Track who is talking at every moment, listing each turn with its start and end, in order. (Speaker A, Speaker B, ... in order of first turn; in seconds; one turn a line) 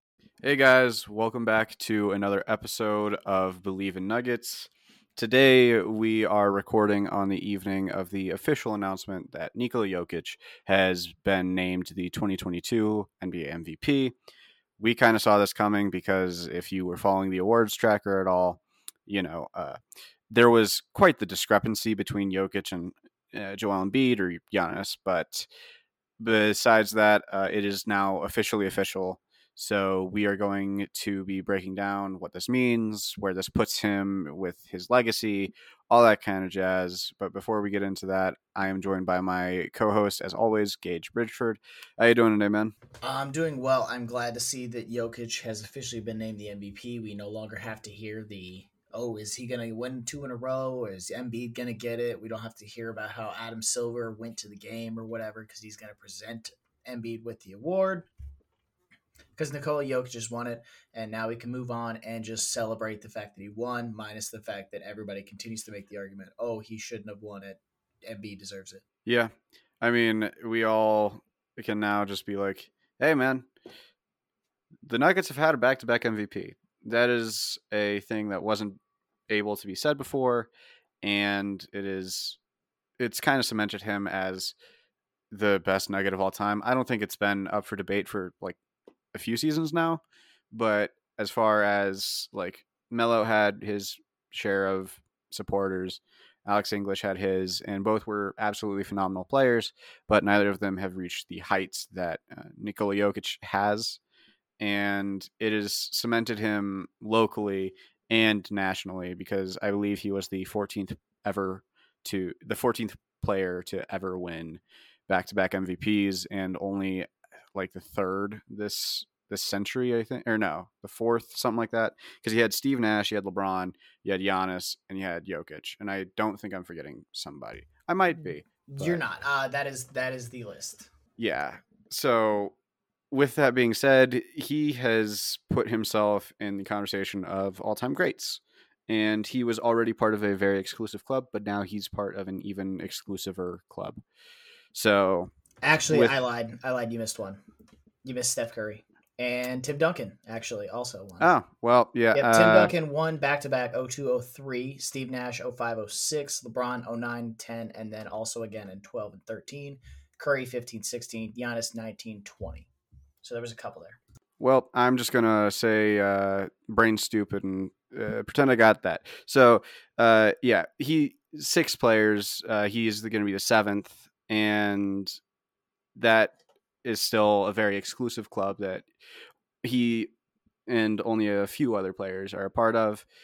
Speaker A: 0.4-14.1
Speaker A: 14.8-19.8
Speaker A: 20.3-25.5
Speaker A: 26.2-42.7
Speaker B: 43.0-58.1
Speaker B: 59.4-68.8
Speaker A: 69.0-73.5
Speaker A: 74.8-80.5
Speaker A: 81.0-82.4
Speaker A: 83.0-84.5
Speaker A: 85.3-88.6
Speaker A: 89.1-104.0
Speaker A: 104.6-129.0
Speaker B: 128.7-130.9
Speaker A: 131.2-132.6
Speaker A: 133.1-144.0
Speaker A: 144.7-145.3
Speaker B: 145.6-147.4
Speaker A: 145.9-146.2
Speaker B: 148.0-151.3
Speaker A: 151.2-152.7
Speaker B: 152.1-162.7
Speaker B: 163.2-164.0
Speaker A: 164.4-175.2
Speaker A: 175.9-178.9
Speaker A: 179.6-180.1
Speaker A: 180.7-183.1